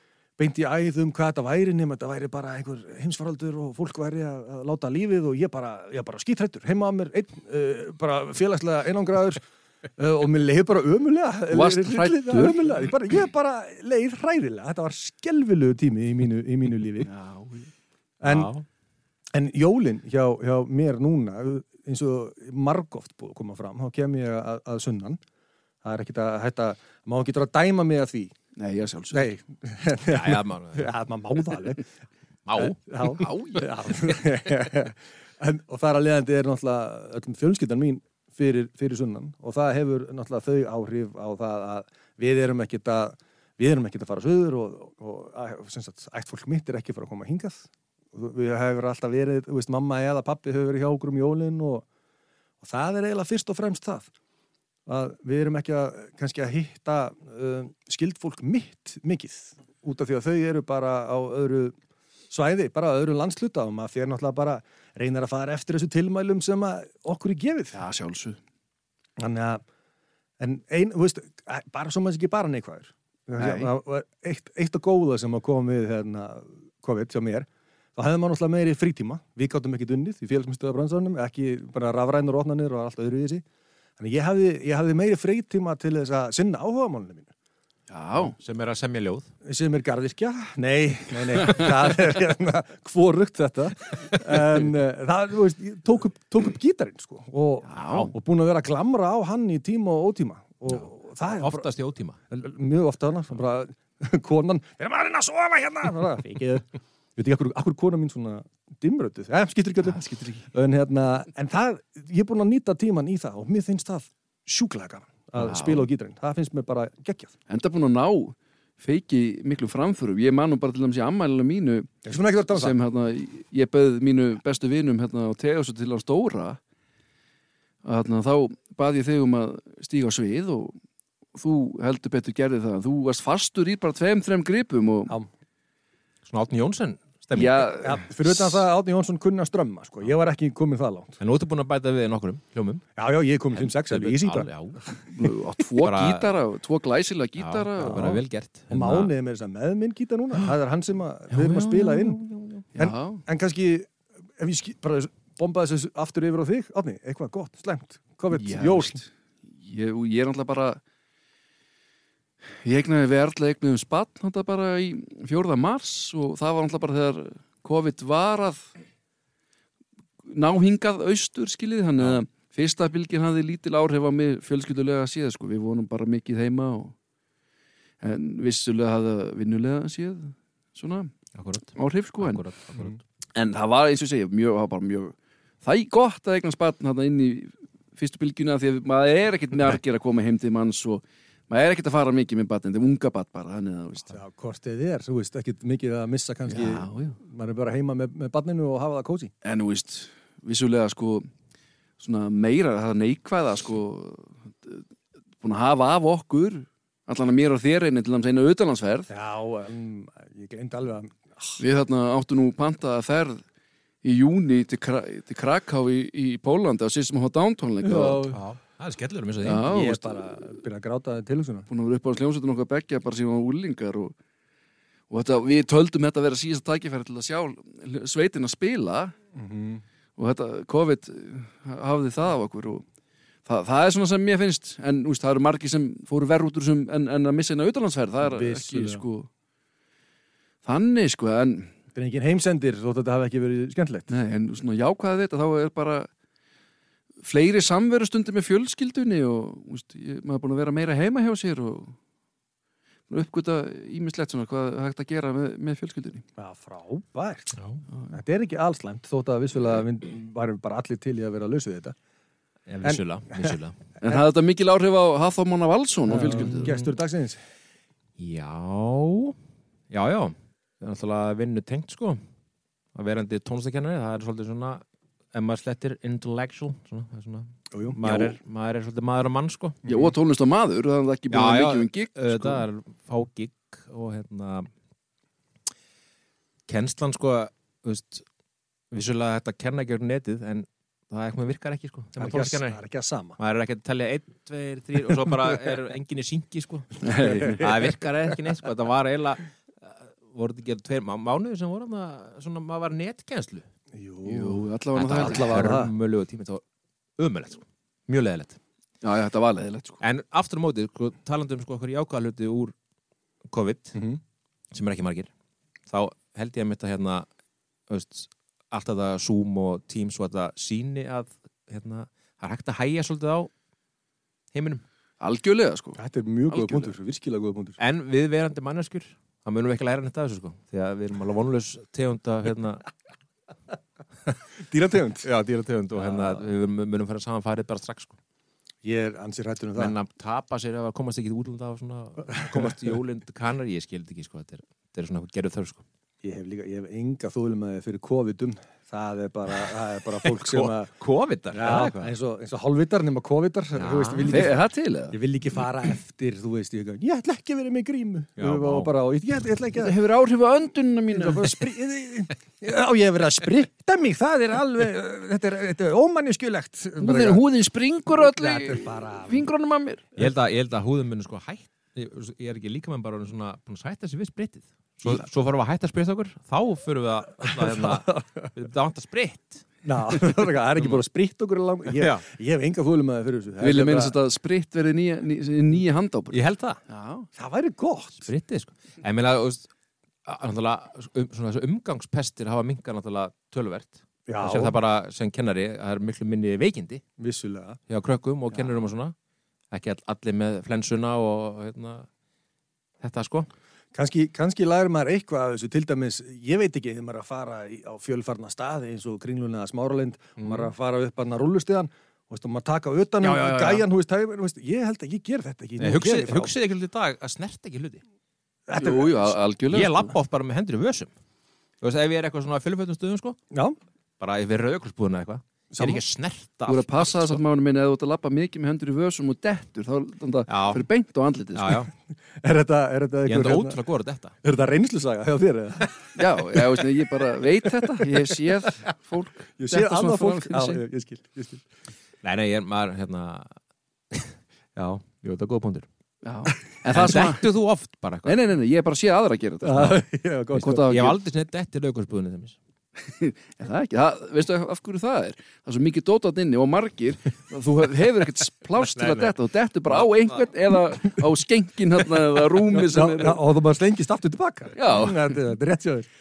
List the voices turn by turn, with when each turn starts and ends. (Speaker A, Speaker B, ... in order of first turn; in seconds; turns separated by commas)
Speaker A: 0.4-9.4, Speaker A: 9.9-17.1, Speaker B: 11.5-12.9, Speaker B: 17.0-17.7, Speaker A: 18.2-18.5, Speaker C: 18.2-18.6, Speaker A: 19.3-25.2, Speaker A: 25.8-28.3, Speaker B: 28.6-29.3, Speaker A: 29.1-31.8, Speaker C: 30.1-30.9, Speaker C: 32.5-32.8, Speaker A: 32.6-51.8, Speaker B: 33.0-33.7, Speaker A: 52.6-54.1, Speaker A: 54.9-61.7, Speaker A: 62.3-67.8, Speaker B: 67.7-68.4, Speaker A: 69.2-69.6, Speaker A: 70.4-83.4, Speaker B: 73.4-73.7, Speaker A: 84.0-87.3, Speaker B: 87.9-88.3, Speaker C: 88.2-89.3, Speaker A: 89.4-101.7, Speaker B: 97.7-98.1, Speaker C: 101.4-102.2, Speaker A: 102.3-117.3, Speaker B: 109.9-110.5, Speaker B: 115.4-115.8, Speaker B: 117.5-121.9, Speaker A: 122.0-122.8, Speaker B: 122.5-126.6, Speaker B: 127.8-130.8, Speaker B: 131.3-135.2, Speaker C: 136.2-137.7, Speaker B: 137.3-138.6, Speaker A: 137.8-141.2, Speaker C: 141.2-142.8, Speaker A: 142.9-144.5, Speaker C: 143.5-144.8, Speaker B: 145.1-148.1, Speaker C: 145.8-146.3, Speaker C: 147.4-149.1, Speaker A: 147.8-152.2, Speaker B: 151.3-152.1, Speaker C: 151.6-152.6, Speaker A: 152.7-159.0, Speaker B: 152.8-153.2, Speaker B: 158.3-160.8, Speaker B: 162.6-168.7, Speaker B: 170.2-176.9, Speaker B: 178.0-181.1, Speaker C: 181.3-183.0, Speaker B: 181.7-182.4, Speaker B: 183.3-194.1, Speaker A: 194.1-199.3, Speaker B: 196.5-197.2, Speaker B: 199.4-201.3, Speaker B: 202.0-204.8, Speaker B: 205.4-209.1, Speaker A: 209.1-211.6, Speaker B: 211.6-213.4, Speaker B: 214.0-218.3, Speaker A: 217.8-218.4, Speaker C: 218.3-219.7, Speaker B: 219.4-220.2, Speaker A: 219.5-221.7, Speaker B: 221.7-224.1, Speaker B: 225.1-229.1, Speaker A: 229.3-229.8, Speaker B: 230.2-232.8, Speaker B: 233.4-239.3, Speaker A: 238.2-239.0, Speaker B: 240.6-241.7, Speaker A: 241.9-244.1, Speaker B: 244.1-246.1, Speaker B: 247.2-252.0, Speaker B: 253.1-256.2, Speaker A: 256.4-257.6, Speaker A: 258.1-261.9, Speaker C: 262.7-263.8, Speaker A: 262.8-264.2, Speaker B: 264.0-266.8, Speaker A: 266.1-267.4, Speaker C: 268.2-269.4, Speaker C: 269.9-272.2, Speaker C: 272.9-279.9, Speaker A: 277.7-278.4, Speaker B: 279.9-282.6, Speaker C: 281.3-284.7, Speaker C: 286.7-288.2, Speaker C: 288.9-292.8, Speaker A: 292.2-293.4, Speaker C: 293.4-303.6, Speaker B: 297.0-297.7, Speaker A: 297.2-297.9, Speaker A: 303.9-304.6, Speaker B: 304.2-305.6, Speaker C: 304.9-306.6, Speaker A: 305.1-305.9, Speaker C: 307.2-308.6, Speaker B: 309.0-310.0, Speaker C: 310.0-312.7, Speaker C: 313.5-313.9, Speaker A: 313.9-314.2, Speaker C: 314.7-315.3, Speaker C: 315.9-317.3, Speaker C: 317.9-323.5, Speaker C: 324.5-324.8, Speaker B: 325.2-326.0, Speaker A: 326.0-327.8, Speaker C: 326.5-326.9, Speaker C: 327.8-332.8, Speaker A: 334.6-335.3, Speaker C: 335.2-338.1, Speaker A: 336.0-336.4, Speaker A: 338.8-339.9, Speaker C: 339.8-345.8, Speaker A: 346.2-350.9, Speaker C: 350.2-352.1, Speaker A: 351.5-354.6, Speaker C: 353.8-354.5, Speaker B: 354.2-355.2, Speaker A: 355.1-359.9, Speaker C: 358.4-358.9, Speaker B: 359.8-361.5, Speaker A: 361.1-367.4, Speaker B: 367.0-370.1, Speaker A: 368.1-369.5, Speaker C: 370.2-379.7, Speaker A: 377.4-378.5, Speaker A: 379.8-384.1, Speaker C: 381.9-382.2, Speaker B: 383.6-387.3, Speaker C: 386.3-386.8, Speaker A: 387.4-388.2, Speaker C: 388.2-389.7, Speaker C: 390.2-397.0, Speaker A: 394.3-394.8, Speaker A: 397.2-397.8, Speaker C: 397.9-399.1, Speaker C: 399.7-402.1, Speaker C: 403.0-403.5, Speaker A: 403.9-416.5, Speaker C: 410.4-410.7, Speaker C: 413.2-413.9, Speaker C: 415.8-418.0, Speaker A: 418.7-419.3, Speaker B: 418.8-420.1, Speaker C: 419.7-421.1, Speaker C: 421.8-423.4, Speaker A: 423.5-423.8, Speaker C: 424.2-427.4, Speaker A: 425.7-426.0, Speaker B: 426.7-431.9, Speaker C: 430.5-430.8, Speaker C: 431.5-431.9, Speaker A: 432.4-433.8, Speaker C: 433.3-434.3, Speaker A: 434.4-436.8, Speaker B: 436.1-440.8, Speaker A: 439.6-441.6, Speaker C: 442.2-443.5, Speaker C: 444.1-445.9, Speaker B: 446.2-447.5, Speaker C: 446.9-448.4, Speaker B: 448.2-450.0, Speaker A: 449.6-450.9, Speaker B: 450.5-451.2, Speaker C: 450.7-452.6, Speaker B: 453.0-463.4, Speaker C: 459.0-459.3, Speaker C: 459.9-460.4, Speaker A: 462.7-466.1, Speaker B: 464.8-465.2